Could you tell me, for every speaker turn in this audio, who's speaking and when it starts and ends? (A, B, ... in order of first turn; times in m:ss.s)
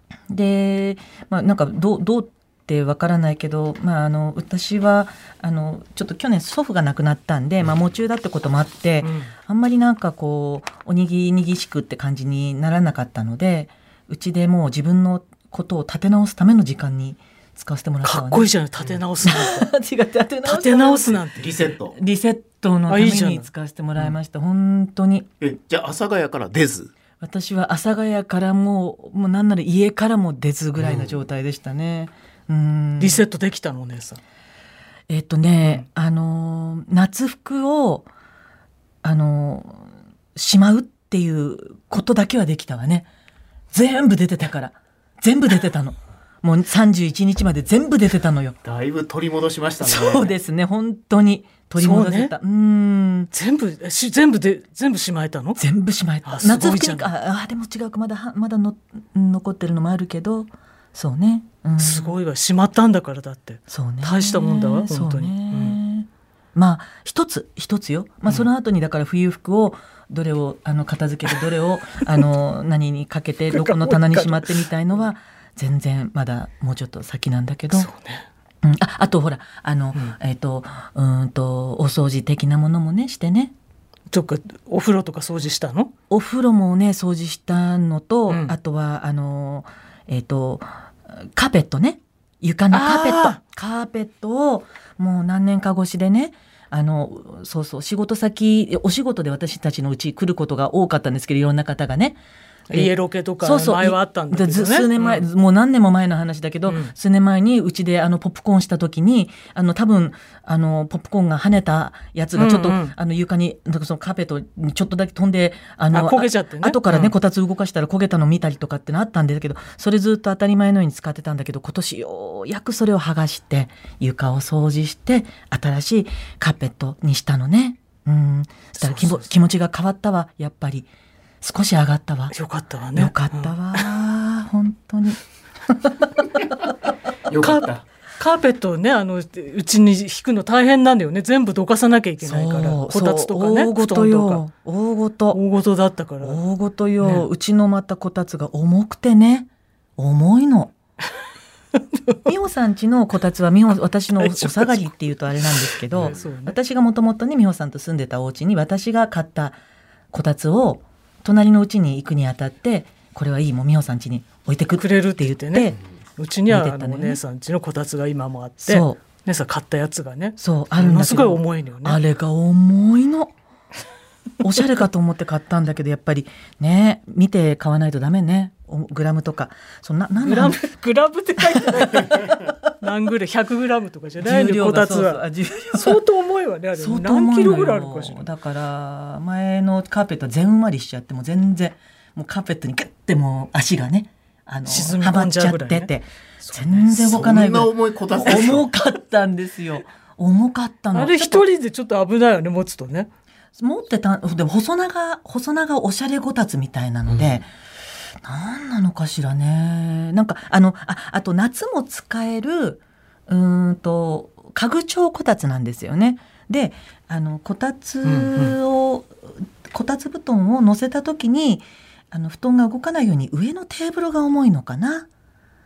0:00.3-0:18.5 A
0:09.0-0:09.3 B
0:18.0-0:19.7 B
0:19.2-0:21.2 A
0:20.4-0:21.6 B
0:21.4-0:22.0 C
0:21.9-0:25.3 A
0:22.9-0:24.1 B
0:25.4-0:26.9 C
0:27.2-0:33.2 A
0:30.8-0:31.2 C
0:33.0-0:34.2 B
0:35.1-0:38.1 A
0:39.0-0:43.1 A
0:43.7-0:48.6 A
0:48.6-0:50.3 C
0:49.8-0:53.3 A
0:51.8-0:52.3 B
0:53.3-0:55.6 B
0:55.6-1:02.2 A
0:56.2-0:57.1 B
1:01.8-1:05.8 B
1:03.7-1:17.9 A
1:13.5-1:14.7 B
1:17.7-1:18.3 B
1:18.6-1:23.5 A
1:24.1-1:25.9 B
1:26.1-1:42.2 A
1:28.3-1:28.6 B
1:32.7-1:33.4 B
1:42.7-1:45.3 B
1:42.7-2:10.9 A
1:46.7-1:46.9 B
1:52.4-1:53.0 B
1:55.9-1:57.1 B
2:08.8-2:09.3 B
2:11.4-2:12.4 A
2:12.3-2:13.9 B
2:13.0-2:16.7 A
2:17.3-2:17.8 C
2:17.4-2:24.4 B
2:22.2-2:25.4 A
2:25.3-2:26.4 B
2:26.2-2:30.7 A
2:27.0-2:27.3 B
2:31.8-2:32.2 B
2:32.2-2:39.6 A
2:34.2-2:34.9 B
2:35.5-2:36.6 B
2:35.9-2:36.2 C
2:40.1-2:45.8 A
2:44.8-2:52.0 B
2:46.5-2:47.2 A
2:48.6-2:49.0 A
2:50.4-2:53.3 A
2:54.4-3:00.6 A
3:00.2-3:08.2 B
3:01.5-3:02.6 A
3:04.2-3:06.0 A
3:06.8-3:21.4 A
3:14.7-3:15.9 B
3:16.4-3:16.9 B
3:16.9-3:18.7 C
3:18.3-3:18.5 B
3:20.9-3:23.1 B
3:23.6-3:27.5 A
3:27.1-3:27.4 C
3:28.2-3:45.1 A
3:38.0-3:38.6 B